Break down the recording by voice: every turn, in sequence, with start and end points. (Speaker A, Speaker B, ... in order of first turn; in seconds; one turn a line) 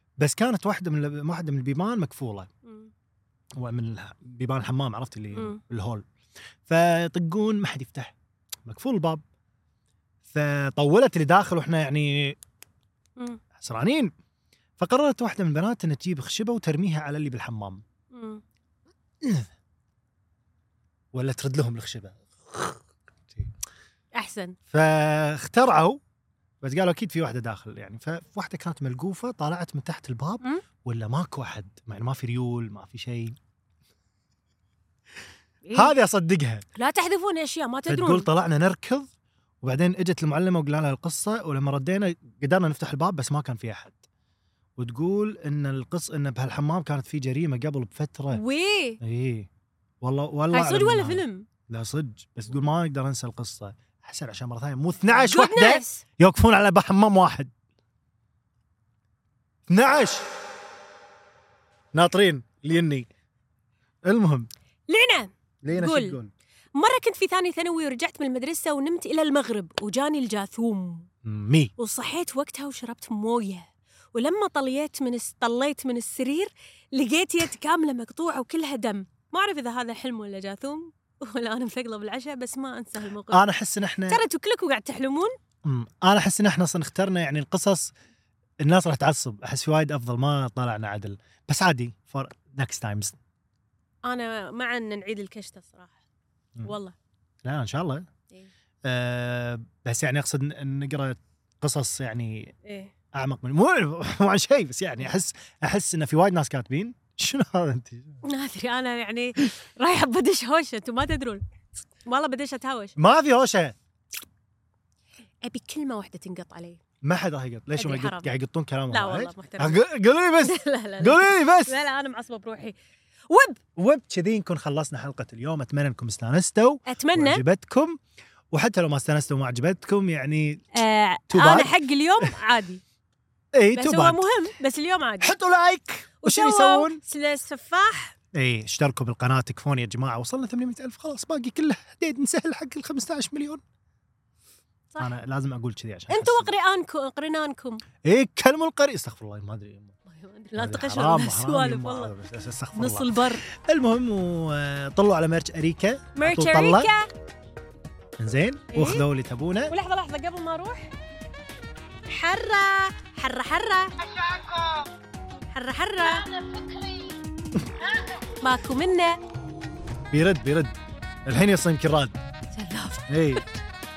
Speaker A: 0.2-2.5
Speaker B: 2.6-2.9
Speaker A: 3.6-6.0
Speaker B: 5.3-5.6
Speaker A: 6.7-9.2
Speaker A: 10.3-12.4
Speaker A: 13.6-14.1
Speaker A: 14.8-17.8
Speaker B: 18.1-18.4
Speaker A: 19.2-19.5
Speaker A: 21.1-23.5
Speaker B: 24.1-24.6
Speaker A: 24.7-26.0
Speaker A: 26.6-33.4
Speaker B: 35.6-36.0
Speaker A: 35.7-36.6
Speaker B: 36.7-38.3
Speaker A: 37.9-39.1
Speaker A: 39.6-44.1
Speaker A: 44.8-48.4
Speaker B: 48.3-49.0
Speaker A: 49.0-49.5
Speaker A: 50.0-57.5
Speaker B: 50.5-51.5
Speaker B: 55.1-56.0
Speaker A: 59.7-60.3
Speaker A: 61.9-63.1
Speaker A: 64.0-64.5
Speaker B: 64.9-66.2
Speaker A: 65.6-66.3
Speaker B: 66.8-71.1
Speaker A: 71.2-71.7
Speaker B: 71.8-83.4
Speaker A: 83.3-84.2
Speaker B: 84.1-85.3
Speaker A: 85.6-87.9
Speaker A: 88.6-93.2
Speaker B: 94.1-96.0
Speaker B: 96.6-97.0
Speaker A: 97.4-98.1
Speaker A: 98.8-102.5
Speaker B: 102.6-102.9
Speaker A: 103.1-108.2
Speaker B: 108.2-111.4
Speaker B: 112.0-113.0
Speaker A: 113.0-113.8
Speaker B: 115.4-116.8
Speaker A: 117.0-121.8
Speaker B: 117.8-118.3
Speaker B: 118.9-119.8
Speaker B: 120.4-122.8
Speaker B: 123.3-123.6
Speaker A: 123.8-128.0
Speaker B: 126.9-127.4
Speaker A: 128.5-130.7
Speaker B: 130.7-132.8
Speaker A: 131.3-132.3
Speaker A: 133.5-134.3
Speaker B: 133.8-135.3
Speaker A: 135.2-137.0
Speaker B: 136.2-138.2
Speaker A: 138.3-143.6
Speaker A: 145.0-146.5
Speaker B: 146.1-147.8
Speaker A: 148.0-149.9
Speaker B: 150.1-152.1
Speaker A: 150.6-156.9
Speaker B: 152.8-153.5
Speaker B: 156.2-157.1
Speaker A: 158.2-159.8
Speaker B: 158.7-159.1
Speaker B: 159.7-160.9
Speaker B: 162.1-163.9
Speaker C: 164.0-164.9
Speaker B: 165.5-166.2
Speaker C: 166.0-167.2
Speaker C: 167.8-168.3
Speaker B: 168.4-169.2
Speaker A: 170.1-170.8
Speaker A: 171.3-172.1
Speaker B: 172.5-173.4
Speaker A: 173.1-173.4